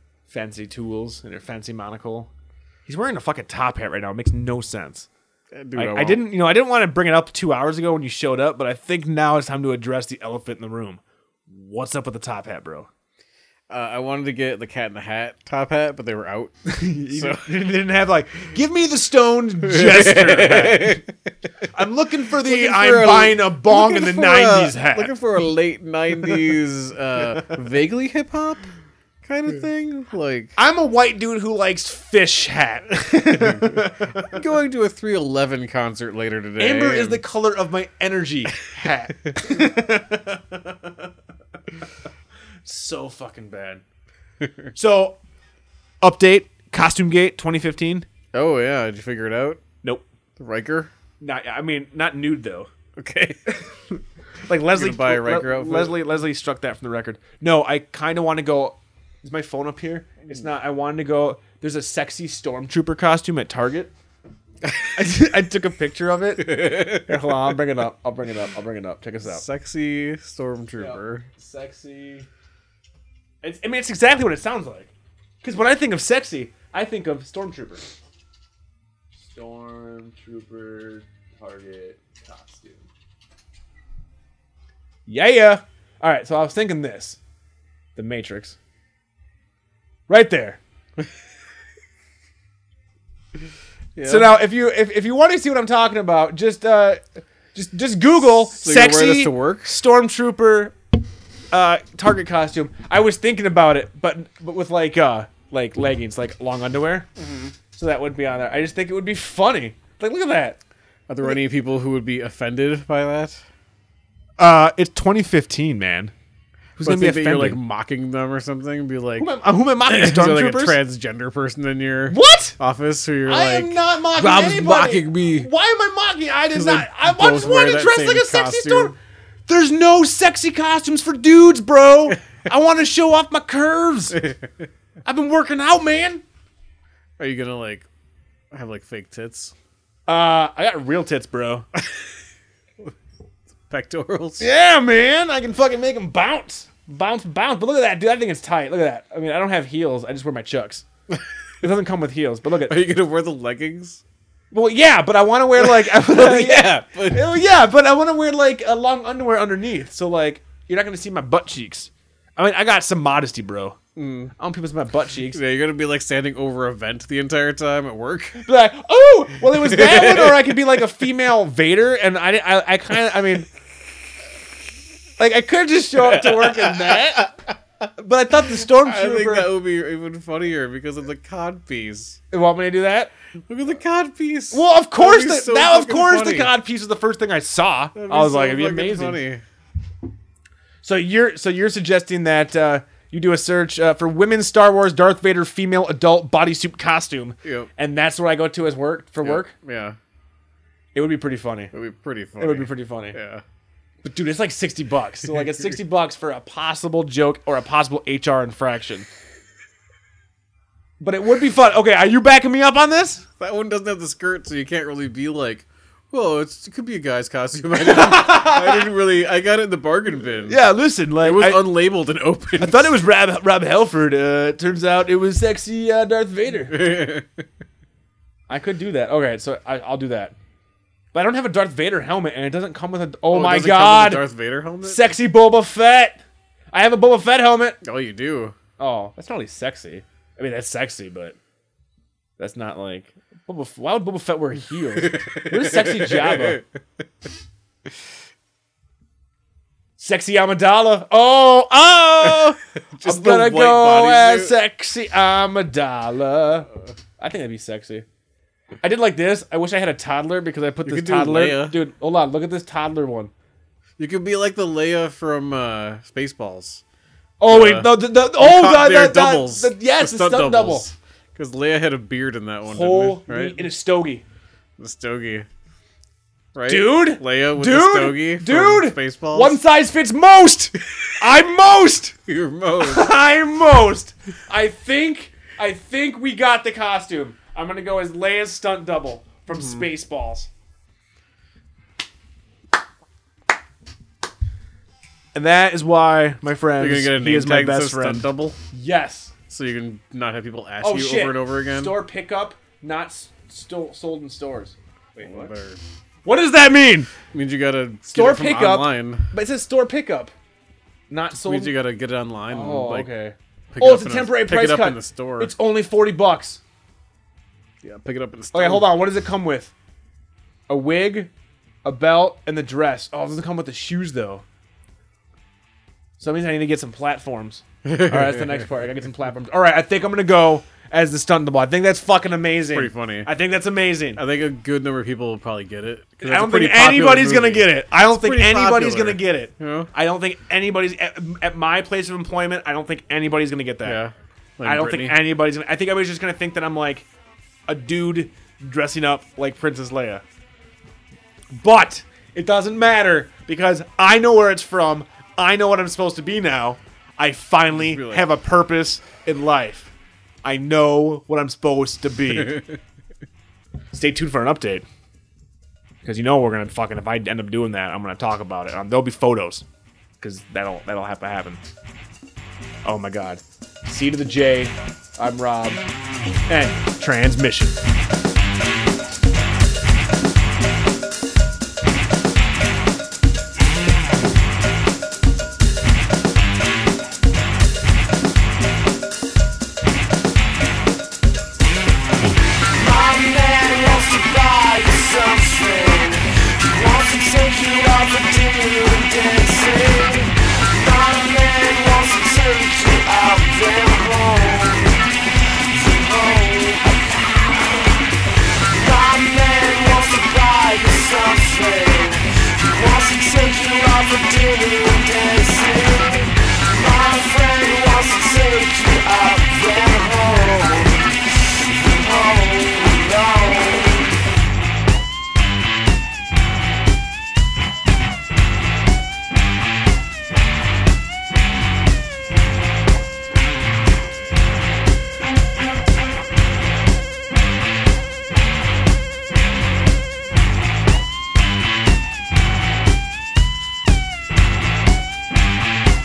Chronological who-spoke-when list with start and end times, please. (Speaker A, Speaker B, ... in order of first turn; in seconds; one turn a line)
Speaker A: 0.3-2.3
Speaker A: 2.9-5.1
Speaker B: 5.5-6.3
Speaker A: 5.8-12.9
Speaker B: 13.7-16.5
Speaker A: 16.7-21.0
Speaker B: 17.1-17.5
Speaker B: 19.6-21.3
Speaker A: 21.7-25.1
Speaker B: 22.4-28.7
Speaker B: 29.2-30.6
Speaker A: 30.6-34.3
Speaker B: 33.3-37.2
Speaker A: 36.6-41.1
Speaker A: 42.6-43.8
Speaker B: 44.4-44.7
Speaker A: 44.8-45.2
Speaker A: 46.0-48.1
Speaker B: 48.3-49.6
Speaker B: 50.4-50.9
Speaker A: 51.2-52.7
Speaker B: 53.0-53.5
Speaker A: 54.5-63.9
Speaker B: 54.7-56.0
Speaker B: 64.6-65.0
Speaker A: 65.0-69.4
Speaker B: 66.4-67.4
Speaker B: 69.2-71.3
Speaker A: 70.8-72.3
Speaker A: 73.4-74.9
Speaker A: 75.4-77.9
Speaker A: 79.2-82.9
Speaker A: 85.1-87.2
Speaker A: 88.0-88.6
Speaker A: 90.1-90.6
Speaker B: 94.0-94.3
Speaker A: 94.0-100.8
Speaker B: 98.5-99.8
Speaker A: 101.5-107.1
Speaker B: 107.2-107.5
Speaker A: 107.7-110.6
Speaker B: 111.1-113.4
Speaker A: 114.4-116.1
Speaker A: 116.8-117.6
Speaker B: 116.8-119.3
Speaker A: 119.2-120.8
Speaker B: 119.8-125.5
Speaker A: 122.1-122.6
Speaker A: 123.3-128.9
Speaker B: 126.5-128.9
Speaker A: 129.5-134.2
Speaker B: 134.2-134.5
Speaker A: 135.1-136.2
Speaker B: 137.2-137.9
Speaker B: 138.5-139.5
Speaker A: 140.1-141.7
Speaker B: 141.8-142.1
Speaker B: 143.6-144.5
Speaker A: 144.4-150.8
Speaker A: 151.6-152.8
Speaker B: 152.6-154.0
Speaker A: 154.5-163.8
Speaker B: 155.6-157.4
Speaker B: 164.0-164.3
Speaker A: 164.4-165.4
Speaker B: 165.3-168.5
Speaker A: 168.4-173.5
Speaker B: 169.5-170.6
Speaker A: 175.2-177.3
Speaker B: 176.0-177.6
Speaker A: 178.0-179.5
Speaker B: 178.5-182.2
Speaker A: 182.3-183.1
Speaker B: 183.5-186.5
Speaker A: 184.5-189.2
Speaker B: 187.9-189.4
Speaker A: 190.8-199.5
Speaker B: 197.4-197.7
Speaker B: 199.2-200.0
Speaker A: 200.9-201.7
Speaker B: 201.7-203.4
Speaker A: 202.4-203.2
Speaker A: 204.0-209.1
Speaker A: 211.0-213.2
Speaker B: 213.4-220.6
Speaker A: 217.8-218.9
Speaker A: 220.5-221.7
Speaker B: 221.2-223.0
Speaker A: 222.6-226.9
Speaker B: 226.7-227.5
Speaker A: 228.5-230.3
Speaker A: 231.1-234.2
Speaker B: 233.3-235.1
Speaker A: 234.8-237.8
Speaker B: 237.8-238.6
Speaker A: 238.8-241.4
Speaker A: 242.4-246.6
Speaker B: 245.0-246.7
Speaker A: 250.0-256.7
Speaker B: 252.2-254.5
Speaker A: 257.2-258.1
Speaker A: 258.8-263.3
Speaker B: 260.9-261.8
Speaker B: 264.0-266.8
Speaker A: 267.4-270.9
Speaker B: 267.5-273.6
Speaker A: 272.7-274.2
Speaker B: 274.8-275.5
Speaker B: 276.6-279.6
Speaker A: 276.7-282.1
Speaker B: 282.3-283.1
Speaker A: 282.8-290.5
Speaker B: 289.5-289.9
Speaker A: 295.4-299.3
Speaker B: 296.8-298.6
Speaker B: 299.5-301.9
Speaker A: 300.8-305.5
Speaker B: 305.2-305.8
Speaker A: 306.2-307.1
Speaker B: 307.3-309.3
Speaker A: 308.1-310.3
Speaker A: 311.1-311.8
Speaker B: 311.3-313.1
Speaker A: 312.5-316.6
Speaker B: 313.7-315.5
Speaker B: 317.8-319.0
Speaker A: 318.5-319.7
Speaker A: 320.7-321.3
Speaker A: 321.9-324.4
Speaker A: 326.2-334.2
Speaker B: 327.9-328.7
Speaker B: 332.7-333.3
Speaker B: 334.2-339.9
Speaker A: 336.2-344.0
Speaker B: 343.8-345.2
Speaker A: 344.6-347.1
Speaker A: 347.7-350.2
Speaker A: 351.5-359.9
Speaker B: 357.7-358.2
Speaker A: 360.4-362.6
Speaker B: 362.3-362.8
Speaker A: 363.9-364.9
Speaker A: 366.0-369.6
Speaker A: 370.2-371.6
Speaker A: 372.9-375.8
Speaker A: 376.5-377.8
Speaker C: 392.7-405.0
Speaker C: 405.7-407.7
Speaker C: 408.7-424.1